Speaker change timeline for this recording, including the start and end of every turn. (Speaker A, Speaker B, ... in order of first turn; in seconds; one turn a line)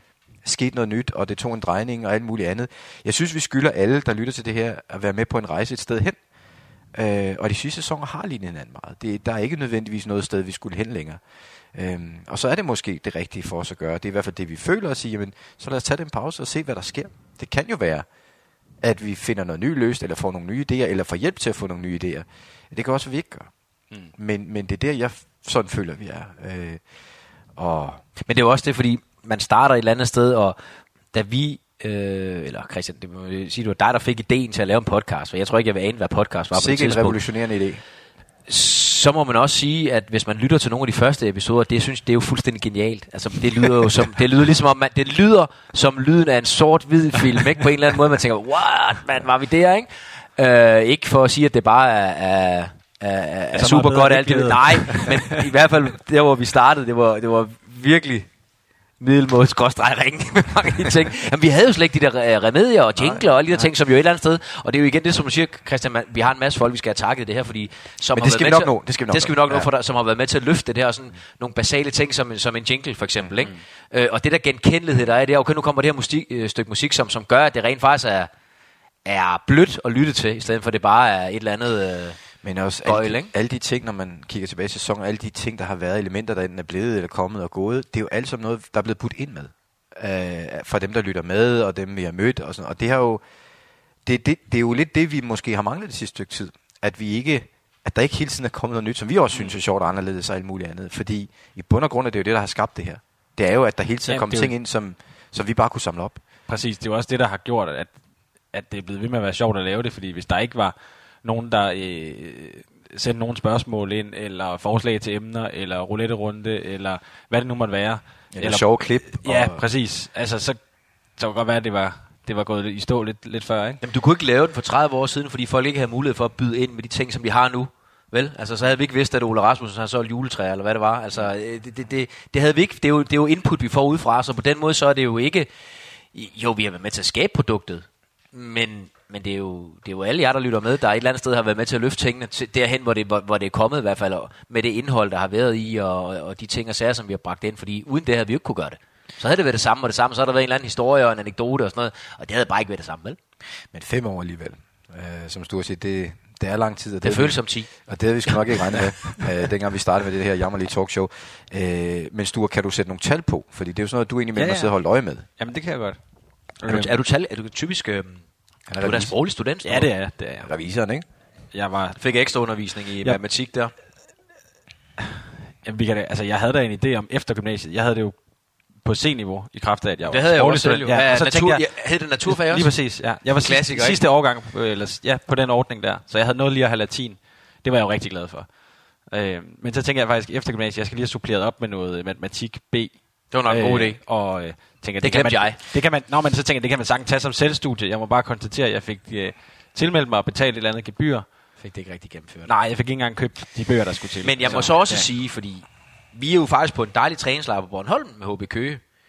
Speaker A: 0.4-6.2
Speaker A: 6.9-18.1
Speaker A: 18.7-28.0
Speaker B: 28.2-37.2
Speaker A: 36.5-37.8
Speaker B: 38.5-58.3
Speaker C: 53.5-55.4
Speaker B: 59.0-78.3
Speaker A: 63.0-63.7
Speaker A: 68.1-69.7
Speaker B: 79.0-82.2
Speaker A: 82.4-93.2
Speaker B: 82.8-83.3
Speaker A: 94.0-106.2
Speaker C: 104.1-104.5
Speaker C: 106.5-123.8
Speaker A: 118.3-119.6
Speaker B: 123.8-153.2
Speaker A: 153.6-165.3
Speaker B: 157.0-158.4
Speaker C: 164.3-166.9
Speaker B: 166.7-169.9
Speaker A: 168.7-169.2
Speaker C: 169.6-170.5
Speaker A: 170.4-171.1
Speaker C: 171.5-173.2
Speaker B: 172.0-173.7
Speaker C: 175.6-201.3
Speaker B: 180.1-184.0
Speaker B: 193.3-195.6
Speaker B: 201.6-202.5
Speaker C: 202.4-205.1
Speaker B: 204.2-208.8